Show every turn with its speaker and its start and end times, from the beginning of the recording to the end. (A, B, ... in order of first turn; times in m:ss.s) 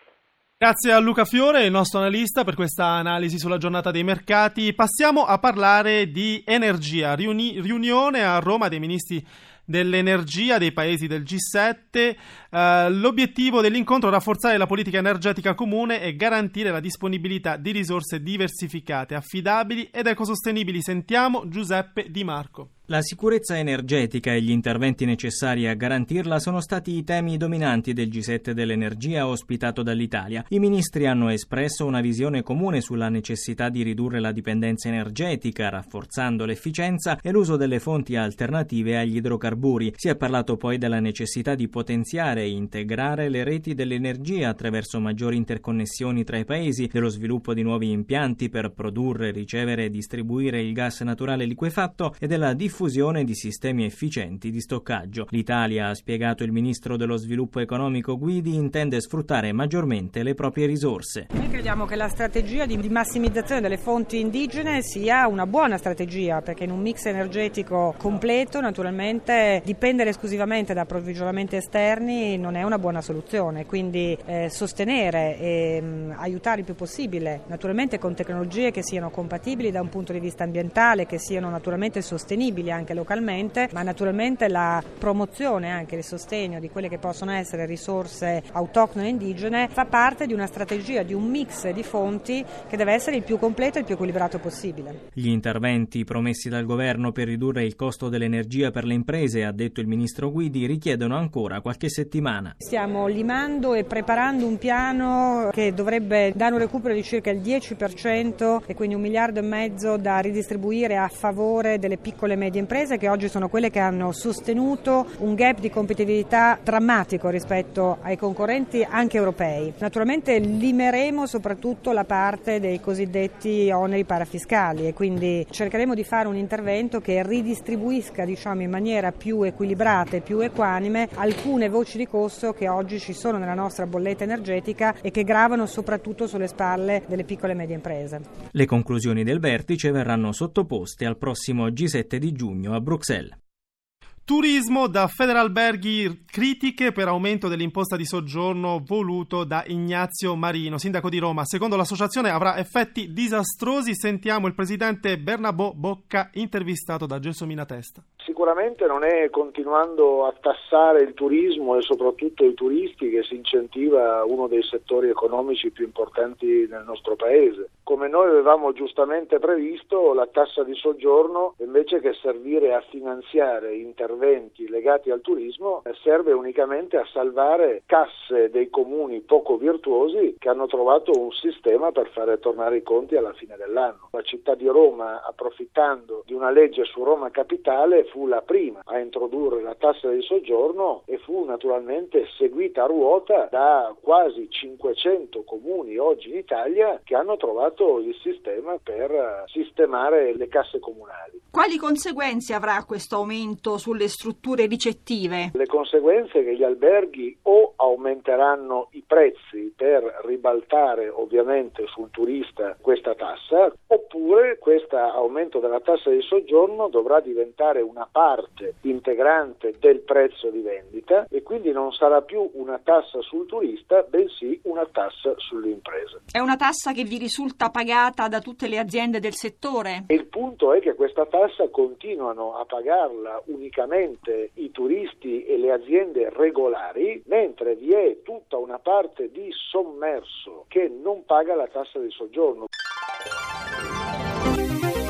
0:00.6-0:22.7 A
0:22.9-1:01.2 B
1:01.3-1:35.0 C
1:35.2-1:42.5 B
1:42.6-2:18.2 C
2:18.6-2:23.3 B
2:24.2-2:38.0 A
2:38.2-3:21.4 D
3:21.5-3:25.5 E
3:25.6-3:46.2 D
3:46.3-3:50.1 E
3:50.1-4:02.6 D